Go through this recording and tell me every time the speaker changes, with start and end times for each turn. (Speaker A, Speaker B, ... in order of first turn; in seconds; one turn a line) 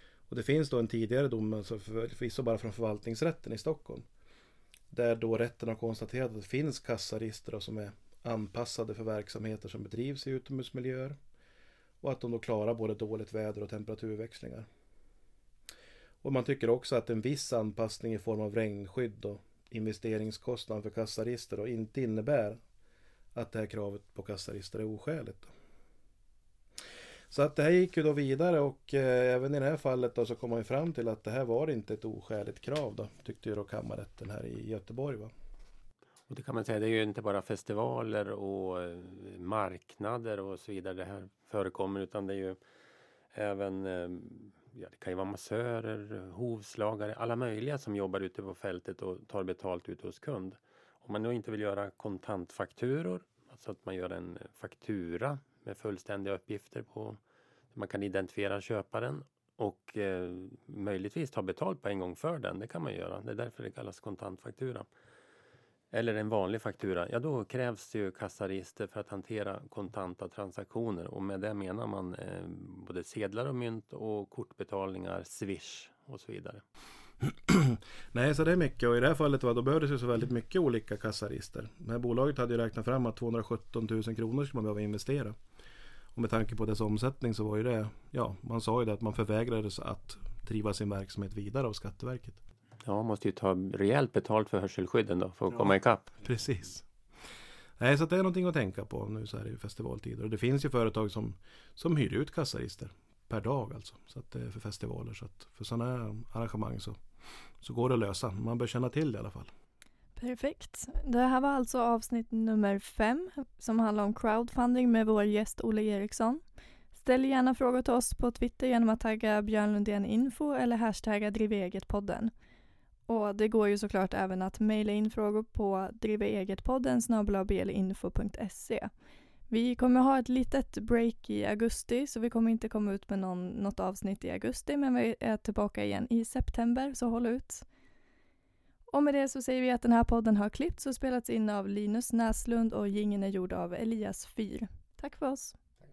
Speaker A: 0.3-4.0
Speaker A: 4.9-11.2
Speaker A: 12.0-14.7
Speaker A: 16.2-22.6
Speaker A: 23.3-25.5
Speaker A: 27.3-35.3
Speaker B: 36.3-42.6
Speaker B: 43.3-57.2
Speaker B: 57.7-64.9
Speaker B: 65.9-76.6
Speaker A: 77.2-85.4
Speaker A: 86.1-92.4
Speaker B: 92.8-96.1
Speaker A: 96.2-96.8
Speaker A: 97.8-107.0
Speaker A: 107.6-109.5
Speaker C: 110.2-116.4
Speaker C: 116.9-122.3
Speaker C: 123.1-128.9
Speaker C: 129.5-137.6
Speaker C: 138.9-145.6